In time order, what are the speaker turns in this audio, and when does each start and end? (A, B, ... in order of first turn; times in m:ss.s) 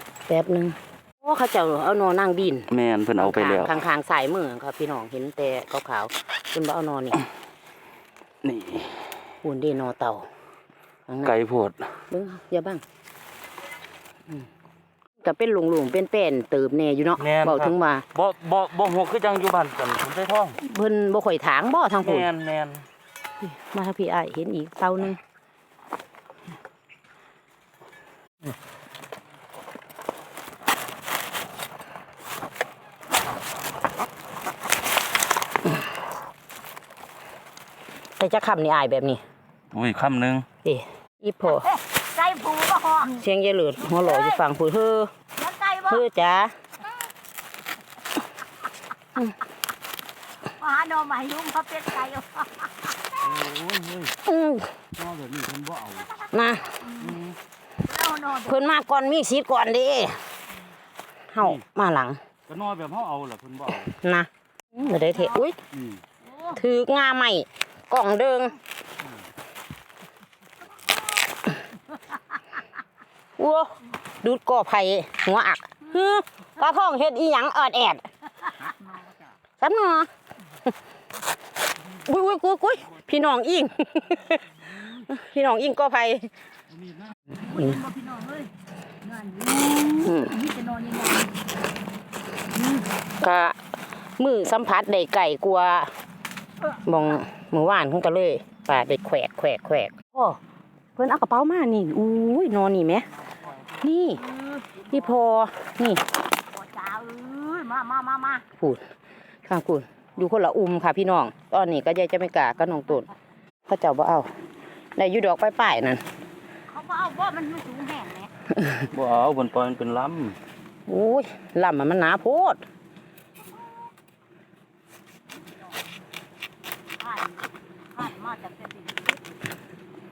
0:00.3-0:07.2 A
0:02.7-0:03.7 B
0:08.4-0:09.1 B
0:09.4-0:10.3 A
0:11.1-0:11.3 A
0:11.2-0:11.8 B
0:12.1-0:12.8 A
0:15.2-0:18.0 A
0:17.2-0:20.6 B
0:20.6-0:22.3 A
0:22.0-0:22.8 B
0:23.4-0:25.2 A
0:38.2-0:39.2 A
0:39.7-0:40.4 B
0:40.6-0:41.7 A
0:41.5-0:43.2 C
0:43.1-0:45.1 A
0:43.9-0:44.4 C
0:45.4-0:46.0 C
0:45.8-0:46.5 A
0:50.5-0:53.2 C
0:53.2-0:54.1 B
0:54.2-0:54.7 A
0:54.9-0:56.1 B
0:56.3-0:56.9 A
0:56.8-0:57.2 C
0:57.0-0:57.3 B
0:57.8-0:58.5 C
0:58.4-1:00.2 A
1:01.3-1:02.2 A
1:02.5-1:03.9 B
1:04.0-1:05.6 A
1:05.7-1:06.0 B
1:06.2-1:06.6 C
1:06.5-1:08.6 A
1:13.4-1:18.0 A
1:19.6-1:20.1 A
1:22.0-1:24.4 A
1:25.0-1:26.3 A
1:27.3-1:28.5 C
1:29.0-1:31.3 C
1:30.0-1:30.4 A
1:33.2-1:33.6 A
1:34.2-1:35.9 A
1:36.8-1:40.4 A
1:41.0-1:43.1 A
1:43.8-1:44.2 A
1:44.2-1:45.1 C
1:44.9-1:46.0 A
1:46.5-1:48.4 C
1:48.6-1:48.8 A
1:49.4-1:53.1 A
1:53.7-1:54.3 A
1:55.0-1:56.0 A
1:56.7-1:58.3 C
1:58.9-2:00.4 B
2:00.9-2:02.6 A
2:07.0-2:09.2 C